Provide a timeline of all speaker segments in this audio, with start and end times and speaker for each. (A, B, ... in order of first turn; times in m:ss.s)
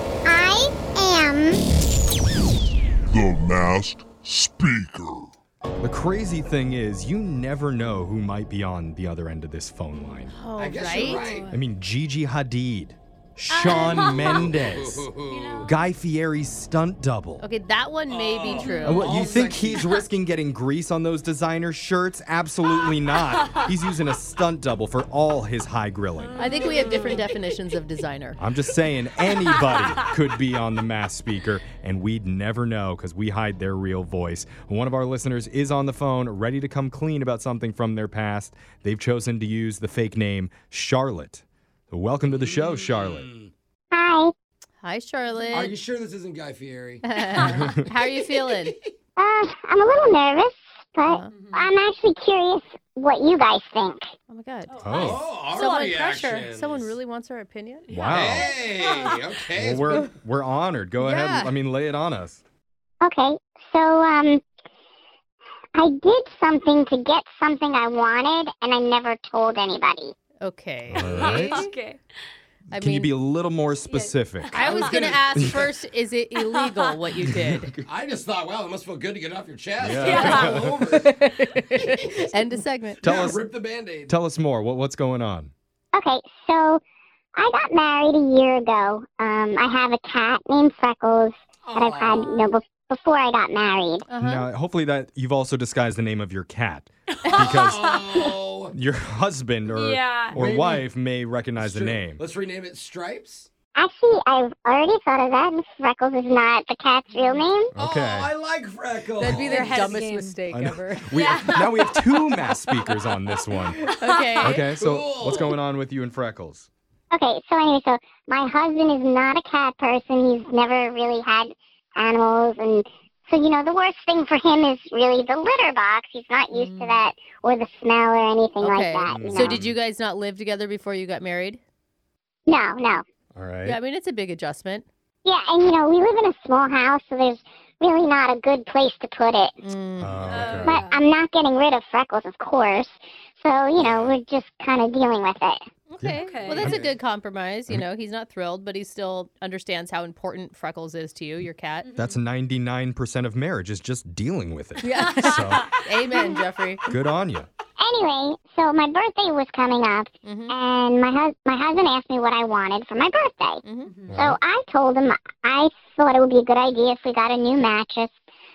0:00.2-0:01.6 A
0:03.1-0:05.3 B
0:05.8-0:10.3 C
0:10.3-0:11.3 D
0:10.6-0:11.5 E
0:10.9-0:11.6 F
0:11.5-0:15.1 C
0:13.6-0:14.5 F
0:13.7-0:15.7 E
0:15.3-0:15.8 F
0:15.6-0:17.4 C
0:17.4-0:19.1 D
0:18.1-0:20.0 E
0:18.5-0:19.0 F
0:18.9-0:26.4 C
0:23.4-0:23.7 F
0:26.2-0:27.6 F
0:26.4-0:28.4 D
0:28.4-0:43.3 C
0:29.4-0:30.1 F
0:42.3-0:43.5 E
0:43.9-0:44.3 A
0:44.8-0:45.8 D
0:45.3-0:45.6 F
0:45.5-0:47.0 E
0:47.0-0:48.8 D
0:47.4-0:47.8 C
0:48.3-0:48.8 E
0:49.2-0:54.1 A
0:51.1-0:51.3 D
0:51.4-0:51.7 F
0:54.3-0:58.0 D
0:54.7-0:56.1 F
0:54.8-0:55.2 C
0:55.0-0:56.9 E
0:57.9-0:59.2 F
0:57.9-0:58.5 C
0:58.1-1:00.1 E
0:59.6-1:02.4 C
1:01.0-1:01.5 D
1:03.0-1:04.4 A
1:05.8-1:10.2 A
1:10.4-1:11.7 D
1:10.9-1:11.7 C
1:11.1-1:12.0 F
1:12.7-1:13.2 D
1:12.7-1:15.7 C
1:13.7-1:15.6 F
1:14.5-1:17.8 D
1:15.1-1:15.6 E
1:16.4-1:17.0 F
1:17.2-1:17.7 C
1:17.8-1:24.2 E
1:19.8-1:20.9 C
1:19.9-1:20.7 F
1:20.8-1:23.0 D
1:23.0-1:23.4 C
1:24.1-1:25.5 C
1:25.9-1:26.8 A
1:27.4-1:34.1 A
1:31.6-1:32.5 E
1:34.1-1:34.5 D
1:34.2-1:38.0 C
1:37.2-1:38.4 F
1:37.4-1:38.7 E
1:38.7-1:42.2 C
1:39.7-1:40.4 F
1:40.3-1:40.8 E
1:41.6-1:43.5 E
1:43.8-1:47.7 A
1:47.1-1:47.5 D
1:47.7-1:48.3 C
1:47.8-1:49.8 E
1:49.2-1:51.2 D
1:49.2-1:49.5 C
1:49.4-1:50.4 F
1:50.5-1:53.8 C
1:51.1-1:52.0 F
1:53.8-1:54.5 F
1:53.8-1:54.7 D
1:54.4-1:56.7 C
1:54.7-1:55.6 E
1:57.1-2:09.6 A
2:06.5-2:07.0 D
2:08.6-2:11.6 D
2:09.1-2:09.8 C
2:12.5-2:13.0 A
2:13.4-2:13.8 C
2:13.6-2:14.9 D
2:15.2-2:19.6 A
2:19.6-2:20.2 D
2:20.0-2:20.8 C
2:20.3-2:21.0 F
2:20.5-2:25.6 A
2:23.8-2:24.1 E
2:23.8-2:24.1 C
2:25.9-2:31.9 D
2:26.0-2:26.9 C
2:26.2-2:26.7 F
2:26.6-2:26.9 E
2:31.8-2:32.2 F
2:32.0-2:35.7 C
2:34.8-2:36.9 D
2:35.2-2:36.4 F
2:36.9-2:37.5 C
2:37.8-2:48.1 A
2:40.2-2:40.6 D
2:43.6-2:44.0 D
2:43.9-2:44.2 F
2:44.1-2:44.4 C